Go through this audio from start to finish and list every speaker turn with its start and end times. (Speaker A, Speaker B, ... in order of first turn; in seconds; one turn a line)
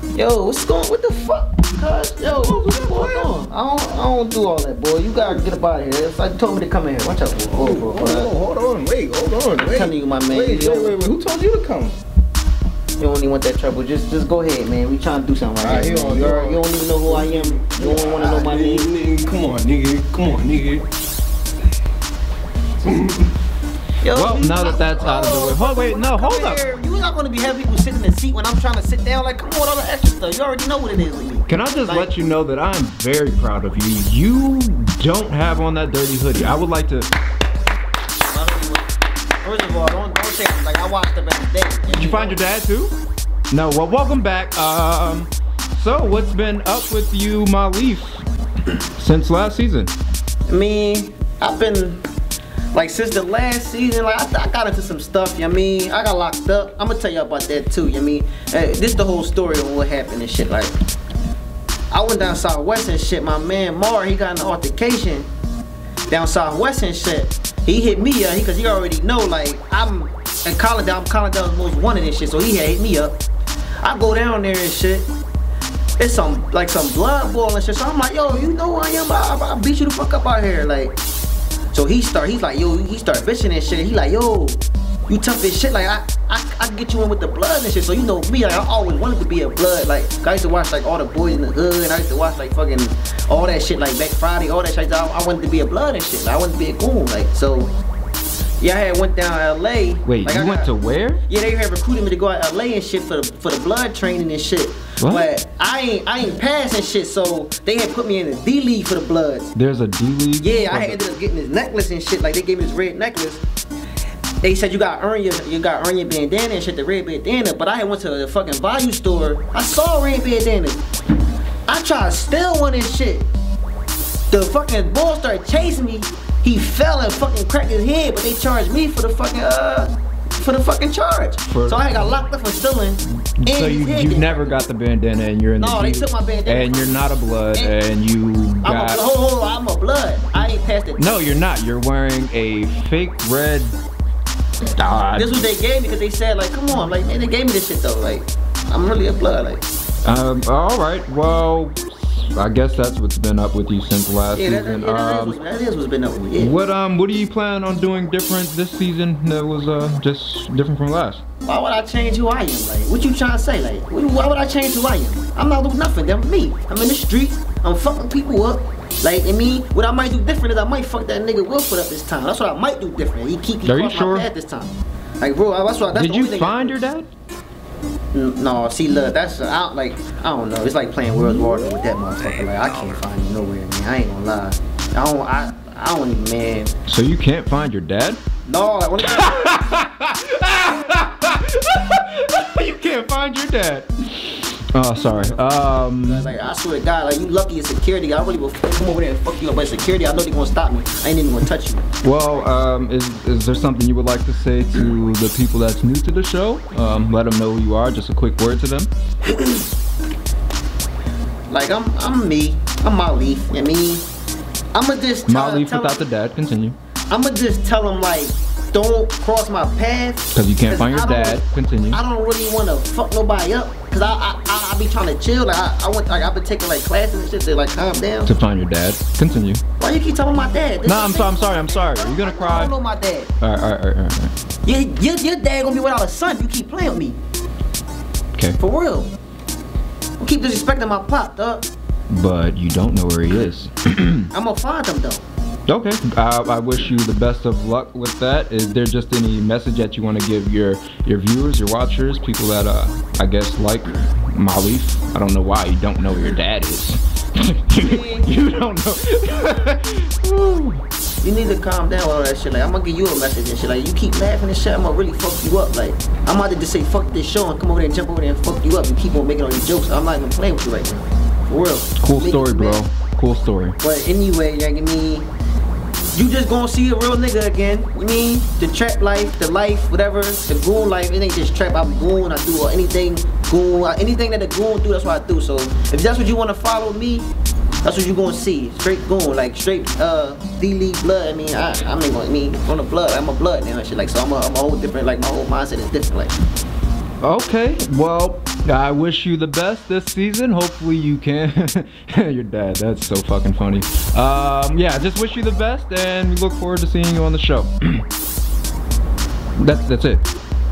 Speaker A: 0.1-8.3
Speaker B: 2.3-3.3
Speaker B: 7.5-12.0
Speaker A: 9.6-11.0
Speaker A: 13.0-18.9
Speaker B: 15.6-20.9
Speaker B: 22.8-23.3
Speaker A: 24.0-32.1
Speaker C: 24.1-26.6
Speaker C: 31.5-37.1
Speaker A: 38.3-38.9
Speaker A: 39.4-42.4
Speaker C: 41.9-42.9
Speaker C: 43.5-48.2
Speaker C: 49.0-49.9
Speaker A: 50.5-52.0
Speaker A: 52.7-60.7
Speaker A: 61.9-65.3
Speaker A: 66.1-73.2
Speaker A: 73.8-75.1
Speaker A: 76.0-81.0
Speaker A: 81.7-97.7
Speaker A: 98.6-100.7
Speaker C: 100.0-101.2
Speaker A: 101.3-109.5
Speaker C: 105.0-105.3
Speaker C: 109.5-111.0
Speaker A: 110.4-113.4
Speaker A: 114.4-120.8
Speaker A: 121.7-123.3
Speaker A: 124.3-134.5
Speaker C: 131.5-132.0
Speaker C: 133.4-139.0
Speaker A: 135.6-137.8
Speaker A: 138.6-141.2
Speaker C: 141.0-143.8
Speaker C: 144.6-145.5
Speaker A: 145.1-149.6
Speaker C: 150.1-155.4
Speaker A: 154.3-156.6
Speaker C: 156.4-161.2
Speaker A: 161.4-176.8
Speaker C: 173.7-174.3
Speaker C: 175.9-177.1
Speaker A: 178.1-186.7
Speaker C: 186.9-188.2
Speaker A: 188.5-189.6
Speaker C: 189.0-196.3
Speaker A: 195.1-201.9
Speaker C: 202.0-208.9
Speaker A: 211.5-214.1
Speaker A: 214.7-216.0
Speaker C: 215.3-216.8
Speaker A: 217.1-228.3
Speaker C: 220.3-222.0
Speaker C: 228.2-229.6
Speaker A: 229.8-233.3
Speaker C: 230.9-232.7
Speaker C: 233.4-234.3
Speaker A: 234.6-237.2
Speaker A: 238.6-239.1
Speaker A: 240.2-241.7
Speaker C: 242.1-244.3
Speaker A: 244.3-245.2
Speaker C: 245.7-260.8
Speaker A: 257.8-258.3
Speaker A: 261.2-272.8
Speaker C: 272.0-273.8
Speaker A: 273.8-275.3
Speaker A: 276.1-287.3
Speaker A: 287.8-296.3
Speaker C: 297.2-308.0
Speaker C: 309.6-310.2